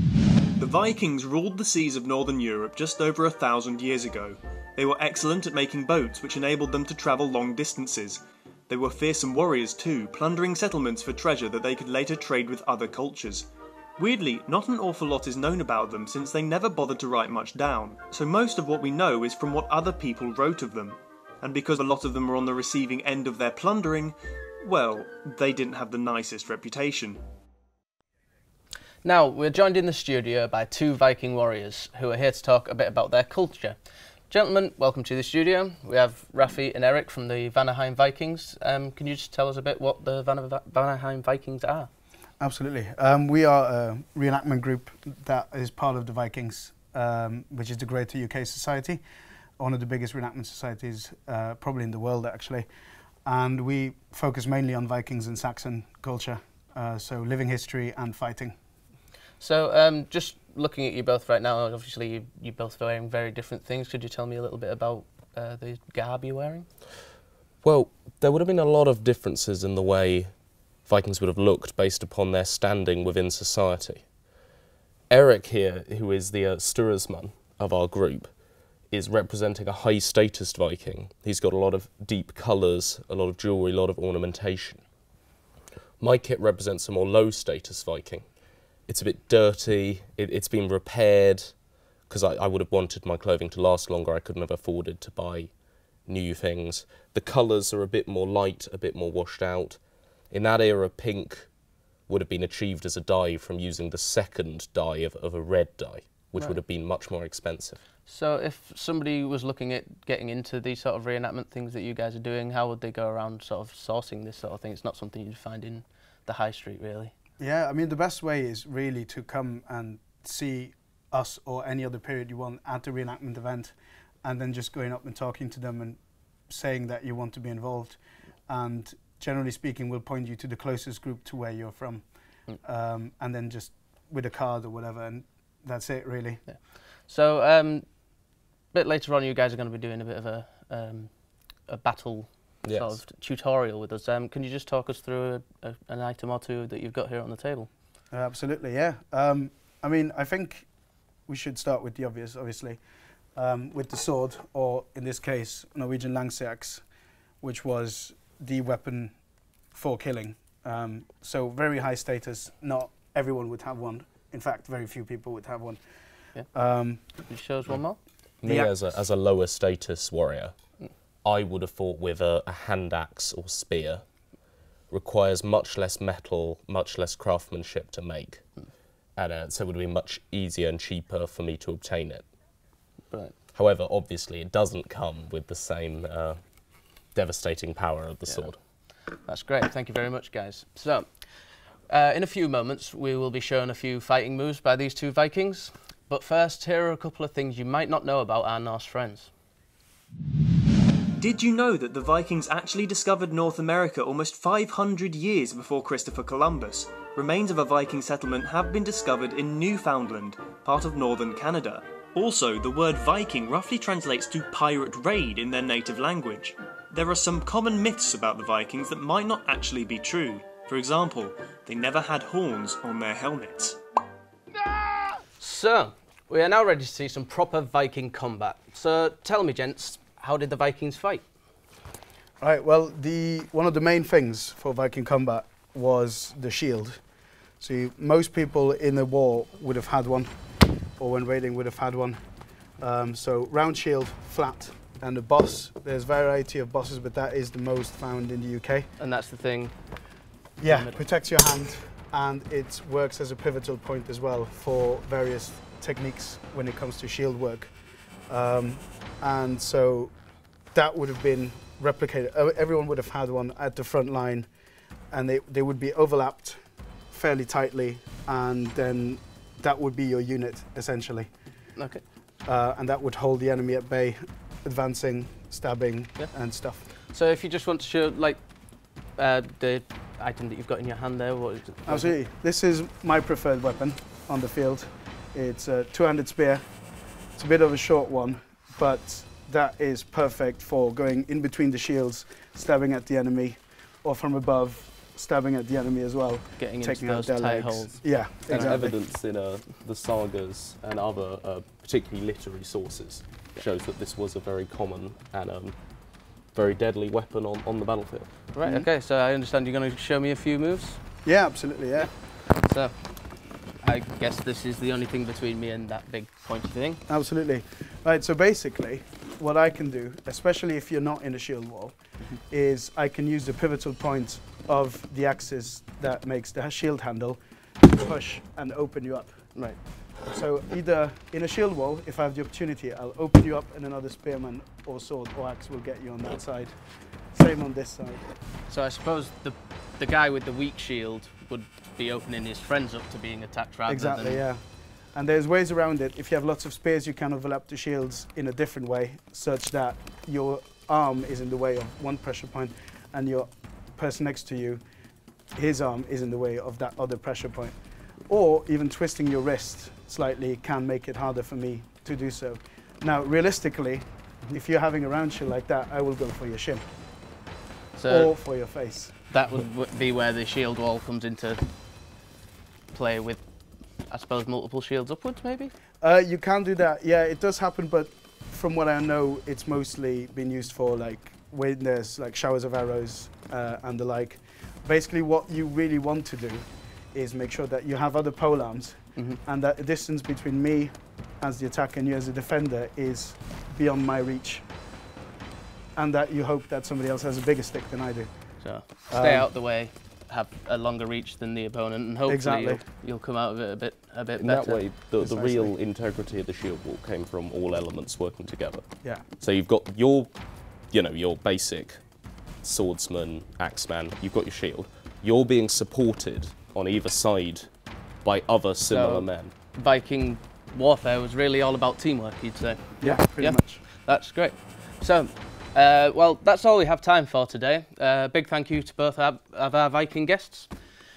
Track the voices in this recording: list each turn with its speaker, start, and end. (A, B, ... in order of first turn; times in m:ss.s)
0:00.6-0:27.2 A
0:29.0-0:33.8 B
0:34.3-0:41.9 B
0:42.4-0:49.0 C
0:49.6-0:52.7 C
0:53.2-0:58.6 C
0:59.4-1:06.7 B
1:07.6-1:10.3 D
1:10.8-1:14.0 D
1:15.1-1:18.3 D
1:18.9-1:24.8 D
1:26.0-1:28.2 D
1:28.9-1:31.5 D
1:32.1-1:35.5 D
1:36.1-1:39.8 D
1:40.3-1:41.5 D
1:42.1-1:47.8 D
1:48.1-1:57.2 B
1:57.4-2:16.4 C
2:16.5-2:17.9 B
2:18.7-2:21.1 B
2:21.7-2:27.7 B
2:22.6-2:23.0 D
2:28.1-2:30.7 C
2:31.3-2:32.8 C
2:33.4-2:36.8 C
2:37.4-2:39.2 C
2:39.7-2:45.8 C
2:46.5-2:47.3 C
2:47.2-2:48.0 B
2:48.4-2:50.5 D
2:48.4-2:48.8 C
2:51.2-2:54.0 D
2:54.9-2:58.4 D
2:59.2-3:02.3 D
3:03.1-3:03.4 B
3:03.6-3:06.4 D
3:07.2-3:08.6 D
3:09.2-3:11.1 B
3:11.9-3:19.3 B
3:21.2-3:43.8 A
3:45.1-3:51.2 B
3:52.4-3:57.0 C
3:57.6-4:00.4 C
4:01.0-4:02.2 C
4:02.8-4:08.9 C
4:09.0-4:09.7 B
4:10.6-4:17.7 C
4:10.6-4:11.0 B
4:18.3-4:20.1 C
4:20.7-4:24.5 C
4:25.1-4:31.3 C
4:31.8-4:32.0 B
4:32.4-4:36.9 C
4:37.0-4:38.4 B
4:39.2-4:42.2 B
4:41.9-4:46.7 C
4:47.4-4:59.0 C
4:56.6-4:58.8 B
4:58.5-5:05.8 D
5:06.5-5:08.3 D
5:08.5-5:11.0 B
5:11.2-5:12.1 C
5:12.0-5:13.3 B
5:13.8-5:17.0 B
5:17.1-5:29.5 C
5:30.3-5:38.3 C
5:38.7-5:44.4 B
5:43.9-5:44.6 C
5:45.1-5:54.8 C
5:55.6-6:06.8 C
6:08.0-6:08.4 B
6:08.1-6:09.1 C
6:09.3-6:11.6 B
6:12.9-6:13.4 B
6:14.1-6:15.7 B
6:16.0-6:34.7 C
6:36.0-6:38.3 C
6:38.6-6:44.9 B
6:39.1-6:39.5 C
6:42.3-6:42.8 C
6:44.4-6:48.9 D
6:45.2-6:45.7 C
6:49.4-6:52.0 D
6:52.6-6:57.7 D
6:58.2-6:59.5 D
6:58.9-7:10.7 B
7:03.0-7:03.8 C